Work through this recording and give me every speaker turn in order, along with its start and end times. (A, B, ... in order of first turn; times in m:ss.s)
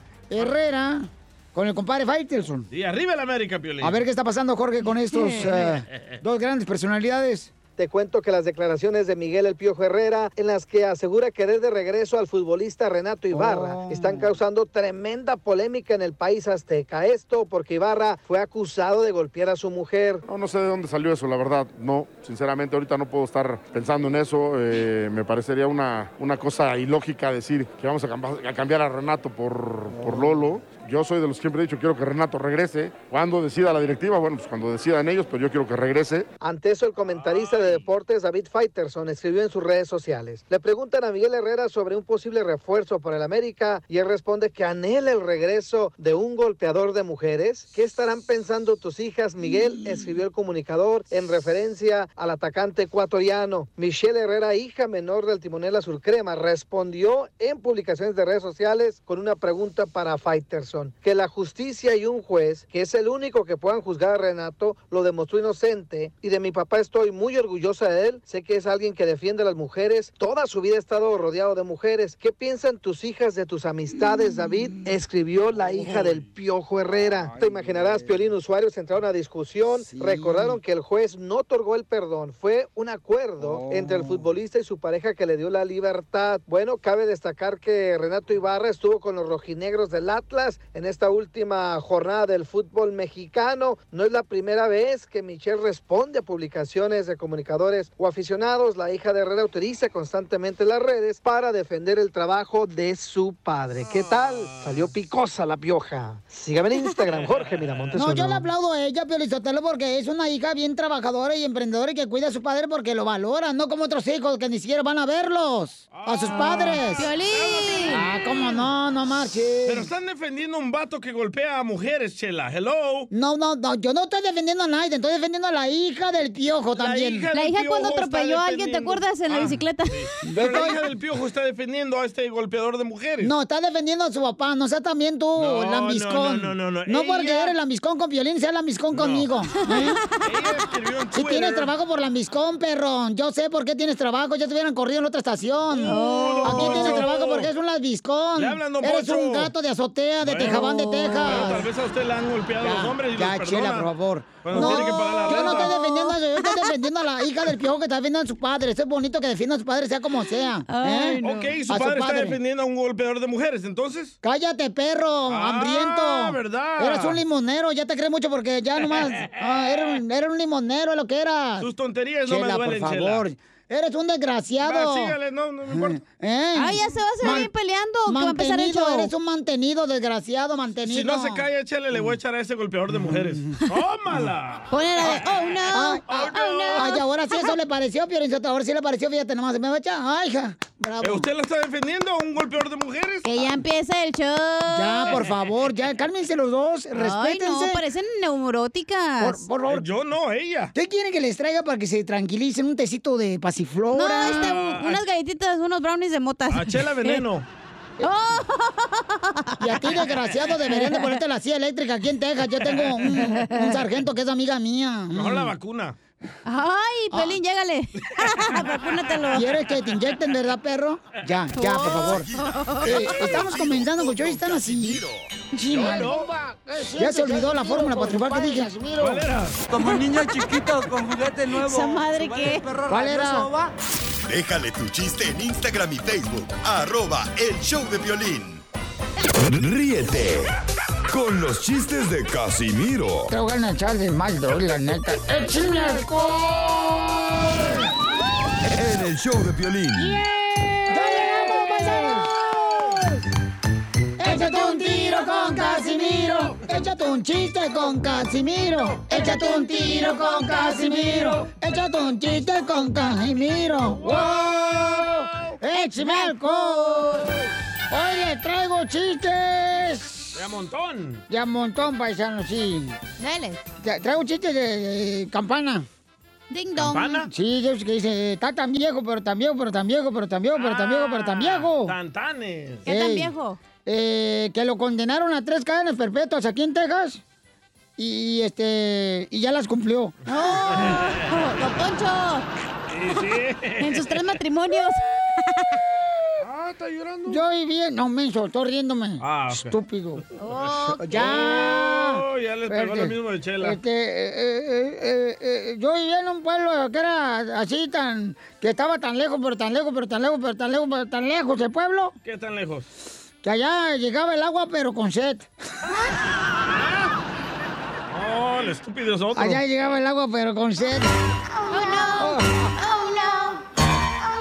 0:00.3-0:02.7 A
0:02.7-0:04.0 B
0:03.8-0:07.5 A
0:07.8-0:20.2 C
0:13.3-0:14.4 A
0:20.3-0:36.3 D
0:29.9-0:30.4 A
0:36.4-1:48.4 C
0:37.1-0:37.9 B
1:19.8-1:20.6 A
1:23.4-1:24.3 A
1:43.8-1:44.9 B
1:47.1-1:48.0 B
1:48.0-1:57.0 A
1:55.9-1:58.4 B
1:56.9-1:58.0 E
1:57.9-1:59.9 A
1:59.6-2:03.1 B
2:03.1-2:07.3 A
2:06.8-2:13.3 B
2:07.3-2:09.9 E
2:10.2-2:10.8 A
2:13.2-2:20.0 A
2:15.4-2:17.5 B
2:18.9-2:19.3 B
2:19.6-2:20.1 E
2:20.2-2:21.7 B
2:21.1-2:31.7 A
2:25.7-2:27.5 B
2:25.8-2:27.1 E
2:28.4-2:29.5 B
2:30.2-2:30.7 B
2:30.4-2:31.5 E
2:31.2-2:33.9 B
2:32.6-2:42.4 A
2:34.4-2:35.7 B
2:34.5-2:36.7 E
2:40.7-2:41.5 E
2:41.2-2:44.2 B
2:44.2-2:51.7 A
2:45.3-2:47.2 B
2:48.9-2:49.3 B
2:51.6-2:53.2 B
2:52.2-2:55.1 A
2:54.6-2:56.0 B
2:55.7-2:57.5 A
2:56.6-2:59.1 E
2:58.1-3:02.1 A
3:00.8-3:05.4 B
3:02.9-3:03.6 A
3:04.7-3:07.5 E
3:05.7-3:11.2 A
3:06.1-3:07.0 B
3:11.0-3:13.2 B
3:13.2-3:15.1 E
3:14.7-3:17.8 A
3:16.9-3:19.4 E
3:19.2-3:19.8 A
3:19.7-3:20.7 B
3:20.7-3:24.5 A
3:23.9-3:27.2 E
3:24.3-3:25.0 B
3:26.5-3:27.5 B
3:28.0-3:30.0 E
3:29.6-3:35.5 A
3:30.7-3:31.2 E
3:33.1-3:33.8 E
3:35.1-3:36.0 B
3:36.4-3:39.5 E
3:37.1-3:37.4 A
3:39.3-3:42.3 A
3:41.5-3:43.4 E
3:42.8-3:49.2 A
3:42.9-3:45.3 F
3:45.7-3:46.2 B
3:47.0-3:48.7 E
3:49.0-3:49.6 B
3:49.7-3:53.7 G
3:51.5-3:52.7 E
3:52.9-3:53.5 A
3:54.2-3:58.6 F
3:59.3-4:00.5 F
4:01.1-4:03.3 F
4:03.3-4:07.9 A
4:08.7-4:10.2 F
4:10.0-4:13.2 A
4:14.2-4:27.3 A
4:14.3-4:15.6 E
4:19.1-4:21.2 E
4:24.0-4:25.0 B
4:25.7-4:27.3 E
4:27.9-4:30.4 A
4:30.3-4:31.2 B
4:31.3-4:33.0 A
4:33.2-4:33.6 E
4:33.8-4:35.8 A
4:36.5-4:37.2 E
4:36.8-4:37.3 B
4:37.3-4:41.9 A
4:40.5-4:42.8 B
4:42.8-4:43.6 E
4:42.8-4:43.3 A
4:43.8-4:47.2 A
4:48.0-4:50.2 A
4:50.3-4:52.4 E
4:52.9-4:54.1 B
4:53.8-4:55.8 E
4:56.4-4:57.4 B
4:57.3-5:00.2 A
4:59.2-4:59.7 B
5:00.4-5:01.5 E
5:00.6-5:03.8 B
5:01.0-5:12.1 A
5:12.2-5:12.9 B
5:13.4-5:15.5 A
5:16.6-5:17.1 B
5:18.1-5:19.6 B
5:19.3-5:21.1 A
5:21.7-5:23.6 E
5:22.2-5:22.7 A